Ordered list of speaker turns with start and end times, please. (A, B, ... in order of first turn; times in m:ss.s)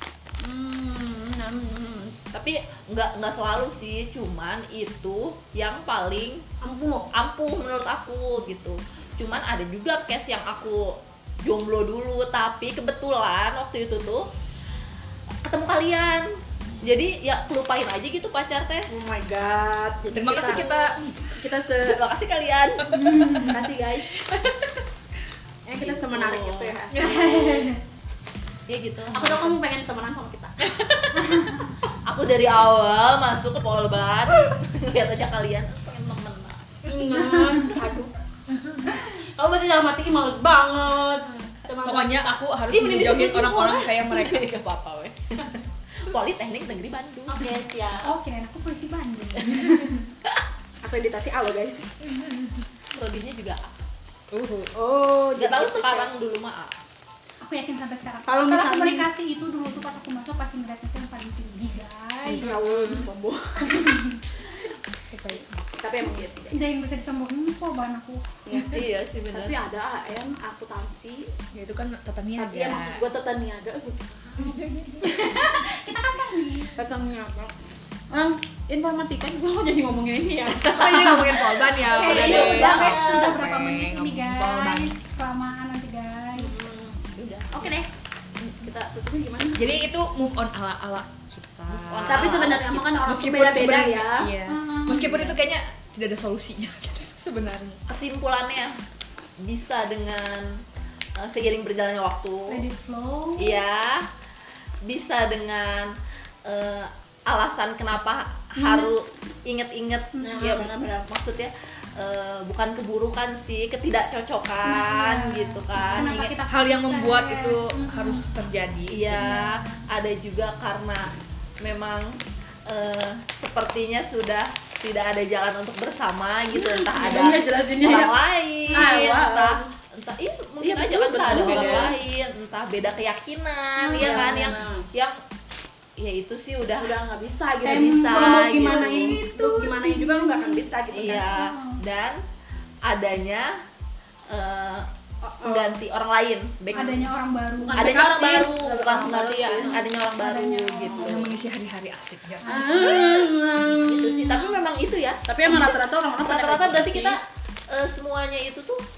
0:00.4-0:02.2 A
0:02.3-0:06.4 B
0:06.6-0:07.1 A
0:07.1-0:14.3 B
0:15.4-0:16.3 B
0:16.8-0:18.9 B
0:18.9-0:22.0 A
0:20.1-0:21.4 C
0:21.8-0:23.0 B
0:22.8-0:23.6 C
0:22.9-0:23.6 D
0:23.4-0:24.1 A
0:25.7-0:27.8 A
0:25.8-0:27.1 B
0:26.9-0:27.8 D
0:28.7-0:29.6 B
0:29.1-0:30.7 A
0:31.2-0:31.7 D
0:32.1-0:36.9 B
0:36.9-0:38.2 A
0:37.2-0:37.8 D
0:38.5-0:38.8 C
0:39.0-0:43.9 A
0:41.8-0:44.5 C
0:44.1-0:47.5 B
0:47.3-0:48.1 A
0:48.0-0:50.0 D
0:50.8-0:51.9 A
0:52.1-0:52.6 C
0:53.0-0:53.7 B
0:54.3-0:54.7 C
0:54.7-0:56.1 A
0:55.4-0:56.8 B
0:57.4-1:02.6 D
0:58.3-0:59.1 A
1:02.3-1:04.0 A
1:02.4-1:03.1 B
1:03.6-1:04.2 D
1:05.2-1:05.6 C
1:05.7-1:06.7 A
1:06.5-1:08.3 D
1:08.5-1:11.3 A
1:08.5-1:09.6 B
1:11.5-1:13.0 C
1:12.4-1:14.6 A
1:14.4-1:15.3 C
1:15.0-1:16.8 D
1:16.8-1:17.6 A
1:18.1-1:21.5 A
1:20.6-1:21.2 B
1:20.6-1:24.9 C
1:20.8-1:26.6 D
1:21.9-1:23.4 B
1:22.0-1:22.8 A
1:26.4-1:27.9 A
1:27.2-1:27.7 B
1:28.6-1:29.7 A
1:29.6-1:37.8 C
1:31.7-1:32.7 B
1:32.1-1:34.3 A
1:34.5-1:35.3 D
1:37.9-1:38.8 B
1:39.4-1:40.6 B
1:41.2-1:42.6 B
1:42.5-1:43.6 D
1:43.4-1:44.1 B
1:44.8-1:56.3 B
1:48.6-1:48.9 D
1:50.2-1:50.6 D
1:50.2-1:51.1 A
1:54.6-1:58.3 D
1:56.1-1:59.4 C
1:58.9-2:01.1 B
1:59.1-1:59.9 D
2:01.6-2:15.2 B
2:06.5-2:09.7 A
2:10.6-2:12.0 A
2:11.3-2:12.0 C
2:13.8-2:14.5 D
2:14.0-2:14.9 A
2:16.0-2:17.0 B
2:16.8-2:21.3 A
2:17.6-2:21.8 D
2:17.8-2:19.2 B
2:20.9-2:22.2 B
2:22.8-2:23.6 B
2:24.3-2:24.9 B
2:25.2-2:25.8 A
2:25.4-2:27.0 B
2:26.7-2:28.0 D
2:27.6-2:29.8 A
2:27.7-2:31.4 B
2:30.2-2:31.1 D
2:30.9-2:31.2 A
2:31.0-2:33.3 C
2:32.4-2:34.6 A
2:33.8-2:38.8 B
2:35.3-2:37.2 A